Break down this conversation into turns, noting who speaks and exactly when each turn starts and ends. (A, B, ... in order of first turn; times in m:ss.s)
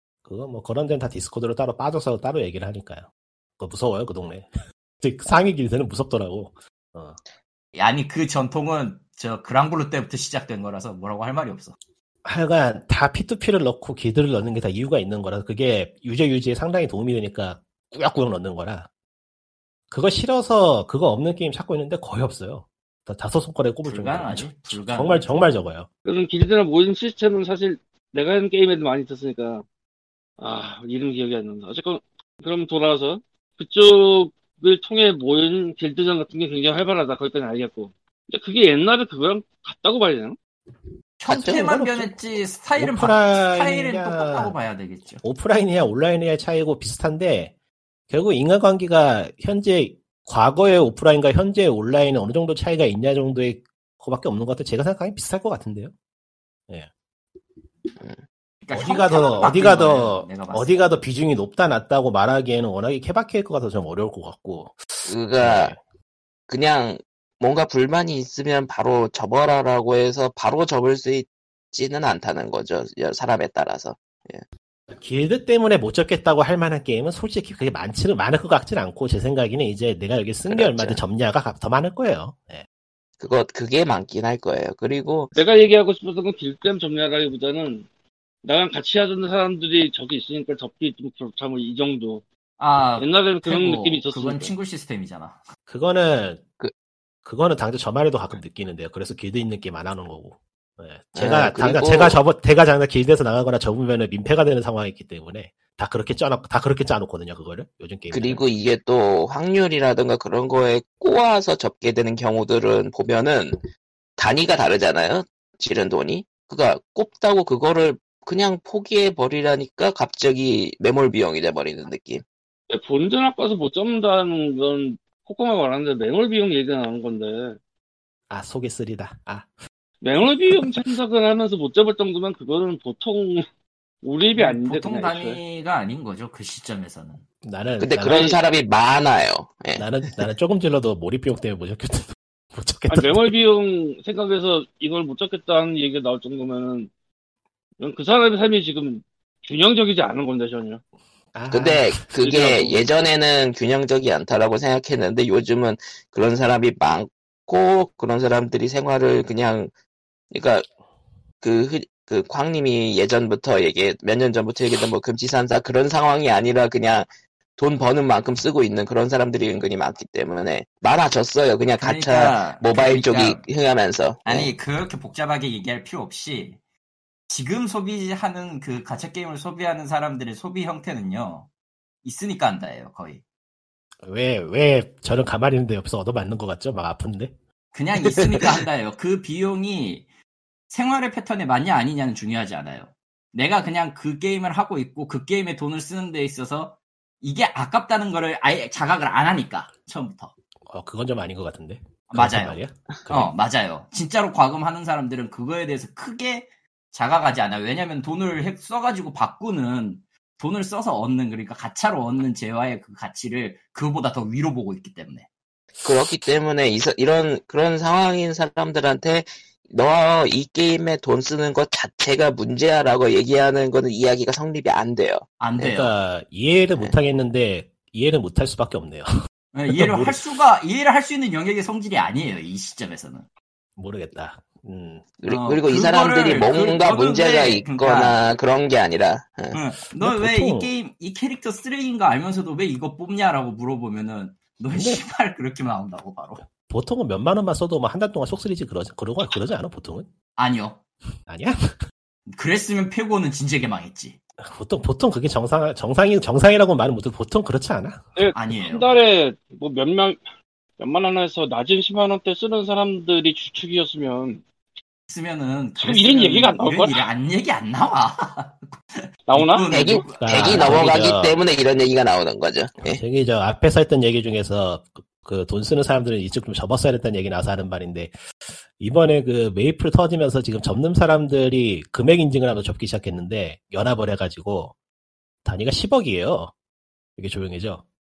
0:00.2-0:03.1 A
0:03.6-0:04.5 A
0:05.0-0:07.2 A
0:07.7-0:11.7 B
0:12.2-0:18.9 A
0:19.9-0:25.9 A
0:23.8-0:25.5 B
0:26.0-0:29.6 C
0:30.4-0:40.4 C
0:41.2-0:45.2 B
0:41.3-0:44.5 A
0:45.2-0:47.5 A
0:48.1-0:55.9 A
0:58.6-1:00.7 B
0:58.7-1:05.8 A
1:05.1-1:05.7 D
1:06.5-1:14.4 D
1:14.9-1:22.6 A
1:20.5-1:21.0 D
1:23.2-1:25.3 D
1:25.3-1:27.8 C
1:28.4-1:32.2 C
1:32.6-1:35.4 B
1:33.0-1:34.5 C
1:35.7-1:36.4 A
1:37.2-1:48.4 A
1:41.1-1:42.2 D
1:48.1-1:53.6 D
1:54.2-2:02.2 D
2:02.7-2:07.6 C
2:08.3-2:09.5 A
2:10.0-2:13.4 C
2:14.0-2:15.4 C
2:14.3-2:17.2 B
2:17.4-2:18.4 A
2:17.8-2:19.9 D
2:19.8-2:23.3 A
2:22.9-2:26.9 C
2:27.8-2:30.8 C
2:31.3-2:32.1 A
2:31.5-2:39.7 D
2:32.2-2:32.8 C
2:40.3-2:40.6 D
2:41.4-2:54.5 D
2:51.8-2:53.4 B
2:54.2-2:56.6 B
2:57.3-3:01.5 B
3:02.0-3:03.2 B
3:04.0-3:07.3 A
3:07.7-3:10.0 B
3:10.7-3:20.3 B
3:20.7-3:23.3 A
3:22.1-3:35.3 B
3:35.8-3:45.2 D
3:45.4-3:45.9 B
3:45.6-3:49.1 A
3:49.5-3:53.2 B
3:49.7-3:50.2 A
3:53.8-3:55.0 A
3:55.2-3:59.6 D
3:55.2-3:58.2 B
3:59.5-4:06.4 B
4:00.0-4:00.7 A
4:04.7-4:05.0 A
4:06.6-4:10.1 A
4:10.4-4:10.8 B
4:11.3-4:11.8 A
4:12.3-4:14.2 B
4:14.4-4:18.3 A
4:18.2-4:20.2 C
4:18.3-4:18.9 B
4:20.8-4:24.4 C
4:25.1-4:31.0 B
4:25.8-4:27.1 C
4:29.3-4:29.7 C
4:29.7-4:33.0 D
4:30.2-4:31.4 A
4:32.9-4:38.1 A
4:38.8-4:44.7 A
4:45.4-4:46.5 A
4:47.2-4:47.8 A